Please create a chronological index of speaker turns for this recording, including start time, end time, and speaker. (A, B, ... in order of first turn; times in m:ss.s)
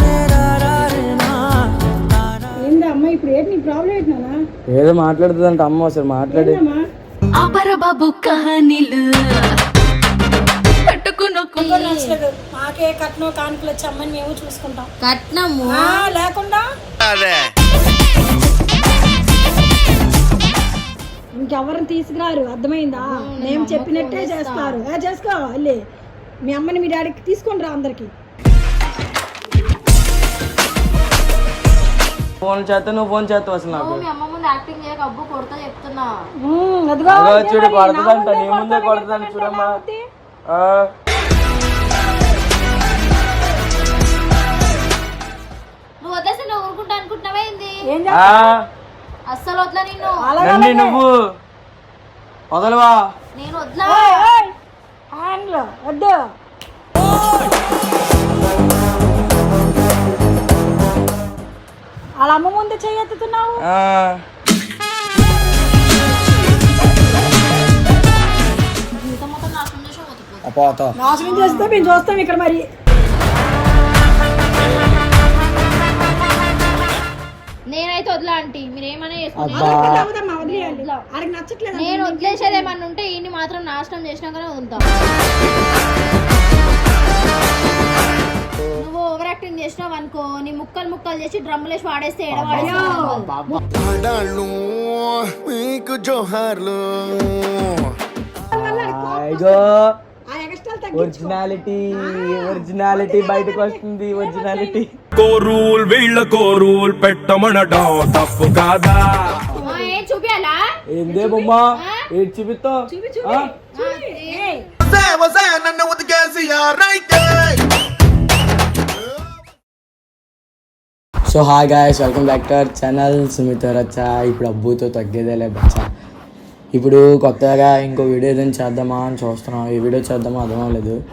0:02.6-0:04.4 A
0:04.7-0:06.6 B
0:06.3-0:06.8 A
0:07.4-0:09.5 C
0:10.8-0:12.2 C
0:11.6-0:14.9 A
0:15.0-0:16.1 C
0:15.7-0:16.6 A
0:21.4-0:25.8 A
0:23.0-0:24.8 C
0:26.4-0:28.1 A
0:32.4-0:34.0 B
0:33.7-0:36.1 C
0:36.4-0:40.0 A
0:37.1-0:39.8 B
0:40.5-0:40.9 B
0:46.0-0:47.7 C
0:47.9-0:48.5 A
0:48.1-0:48.6 B
0:49.3-0:50.2 C
0:50.2-0:51.0 A
0:50.4-0:51.1 B
0:52.5-0:53.0 B
0:53.4-0:54.3 C
0:53.8-0:54.5 A
0:55.2-0:56.2 A
1:02.2-1:03.6 A
1:03.6-1:04.2 B
1:08.9-1:10.5 C
1:10.4-1:11.0 B
1:11.0-1:12.6 A
1:11.1-1:12.1 C
1:17.7-1:21.0 C
1:19.4-1:20.1 B
1:19.5-1:22.7 A
1:21.8-1:24.8 C
1:28.7-1:33.2 C
1:32.3-1:33.6 B
1:32.5-1:33.6 A
1:33.7-1:37.9 D
1:38.5-1:39.7 A
1:38.6-1:39.8 B
1:40.3-1:41.4 A
1:40.9-1:44.9 B
1:41.9-1:44.8 A
1:45.2-1:49.4 E
1:49.5-1:50.0 A
1:49.6-1:52.0 C
1:50.9-1:53.5 B
1:52.9-1:54.6 A
1:53.8-1:54.6 C
1:54.9-1:57.6 D
2:01.3-2:05.9 B
2:06.7-2:11.0 B